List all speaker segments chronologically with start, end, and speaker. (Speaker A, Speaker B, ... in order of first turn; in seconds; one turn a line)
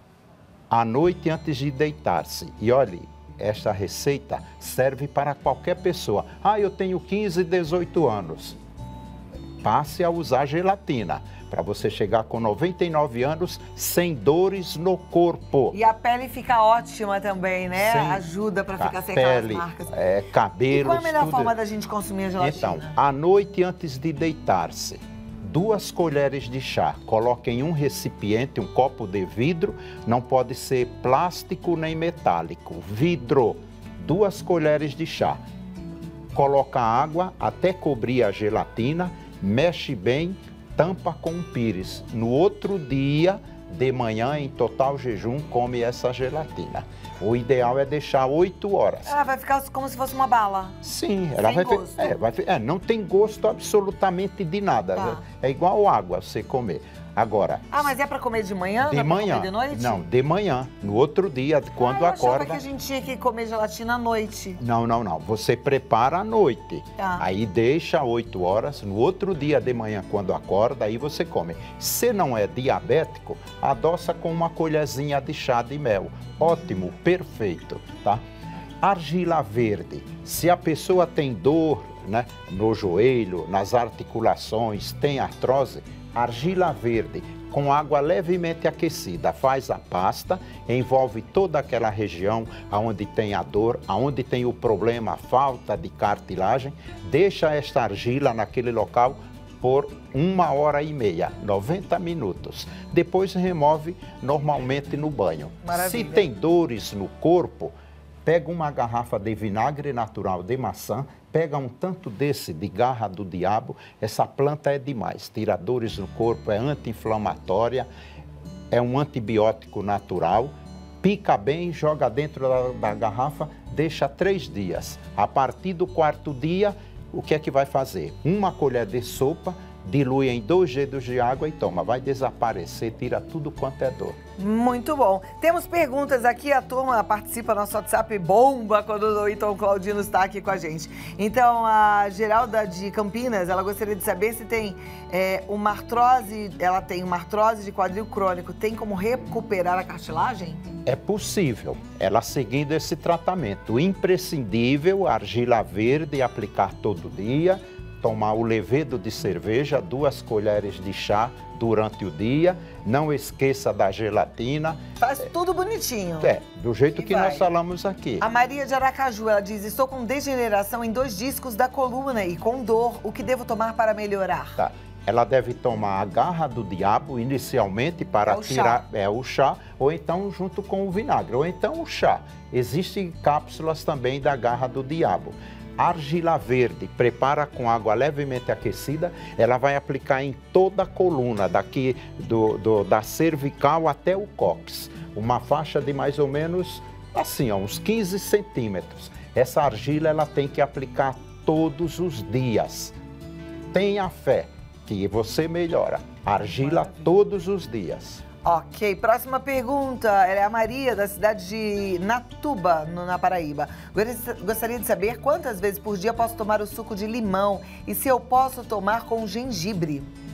Speaker A: 0.7-8.6
Speaker A: 9.6-15.8
Speaker B: 15.7-19.9
Speaker A: 17.8-18.2
Speaker A: 18.8-21.5
Speaker B: 20.7-23.0
Speaker A: 22.4-35.4
Speaker A: 36.3-49.1
Speaker B: 49.0-50.8
Speaker A: 50.8-57.8
Speaker B: 51.4-52.2
Speaker B: 55.0-55.2
Speaker B: 57.7-60.0
Speaker A: 58.8-62.6
Speaker B: 61.8-64.6
Speaker A: 64.6-78.2
Speaker B: 67.0-67.2
Speaker A: 78.8-117.9
Speaker B: 105.6-106.3
Speaker A: 118.7-134.2
Speaker B: 134.4-150.7
Speaker A: 150.8-164.8
Speaker B: 165.0-166.3
Speaker A: 166.2-168.2
Speaker B: 166.9-167.5
Speaker B: 168.2-174.6
Speaker A: 174.6-202.9
Speaker B: 178.2-178.8
Speaker A: 203.7-208.2
Speaker B: 206.6-207.0
Speaker B: 208.4-220.1